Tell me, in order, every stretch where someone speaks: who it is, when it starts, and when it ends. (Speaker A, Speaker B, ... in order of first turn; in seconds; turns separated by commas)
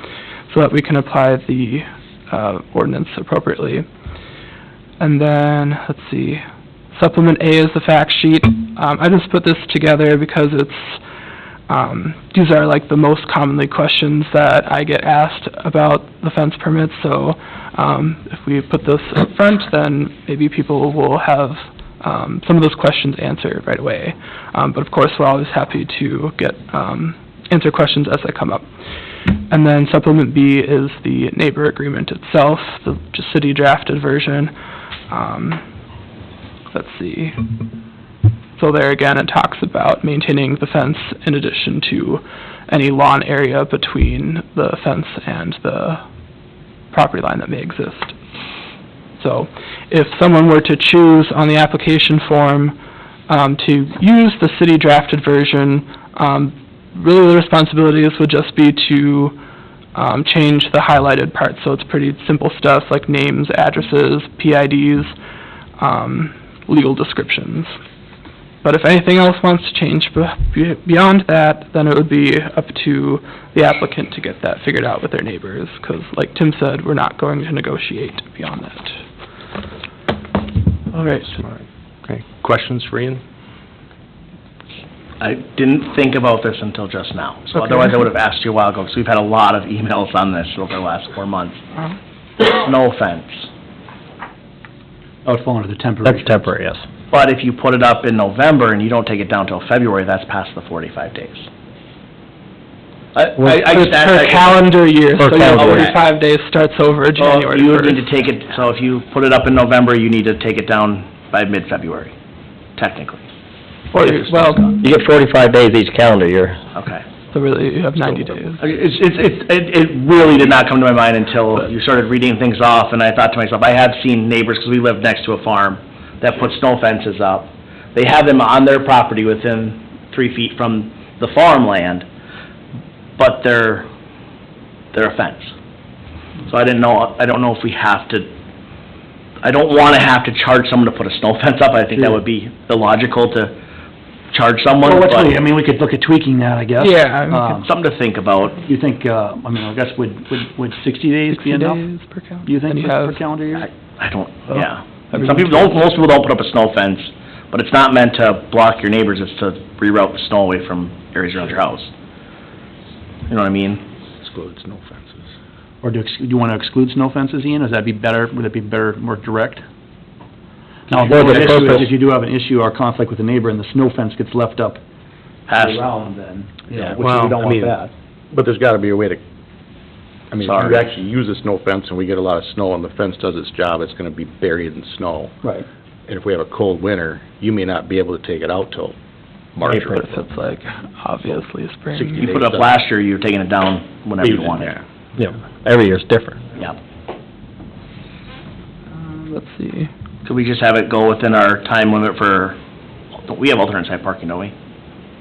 Speaker A: 0.5-3.8, Speaker A: 5.0-11.0, Speaker A: 11.7-28.6, Speaker A: 29.5-34.5, Speaker A: 35.1-35.6, Speaker A: 36.7-37.4, Speaker A: 38.6-46.0, Speaker A: 46.9-48.1, Speaker A: 49.2-52.8, Speaker A: 53.3-59.4, Speaker A: 59.9-65.1, Speaker A: 65.8-67.7, Speaker A: 68.6-79.0, Speaker A: 80.9-81.4, Speaker B: 82.5-83.2, Speaker C: 85.2-91.6, Speaker A: 87.6-87.9, Speaker C: 92.4-93.5, Speaker D: 95.2-96.5, Speaker E: 96.0-96.8, Speaker C: 97.1-101.5, Speaker C: 103.1-106.0, Speaker E: 103.4-103.6, Speaker A: 103.5-108.1, Speaker E: 105.2-105.9, Speaker C: 107.2-112.1, Speaker C: 112.8-113.2, Speaker A: 113.9-114.7, Speaker C: 113.9-114.8, Speaker E: 114.8-116.6, Speaker C: 116.7-117.0, Speaker A: 117.3-118.6, Speaker C: 118.6-132.1, Speaker C: 133.2-133.9, Speaker C: 134.9-135.5, Speaker C: 136.4-138.3, Speaker C: 139.4-143.5, Speaker C: 144.3-145.4, Speaker D: 144.8-147.7, Speaker A: 146.8-147.6, Speaker C: 147.6-148.6, Speaker D: 148.6-151.8, Speaker A: 151.3-153.2, Speaker D: 152.4-153.7, Speaker C: 153.6-161.9, Speaker A: 154.5-155.7, Speaker C: 163.3-163.8, Speaker B: 164.2-165.2, Speaker D: 165.8-169.6, Speaker D: 170.9-174.8, Speaker E: 171.0-171.9, Speaker C: 175.5-175.8, Speaker D: 175.5-177.9, Speaker B: 176.8-177.8, Speaker B: 178.3-179.2, Speaker B: 180.3-185.4, Speaker C: 180.4-180.9, Speaker B: 186.1-188.9, Speaker B: 189.5-190.1, Speaker A: 189.7-192.2, Speaker E: 189.7-190.0, Speaker B: 191.2-192.8, Speaker C: 192.2-194.7, Speaker B: 194.2-194.8, Speaker E: 195.2-196.4, Speaker A: 198.9-199.9, Speaker C: 200.2-202.6, Speaker C: 203.2-204.5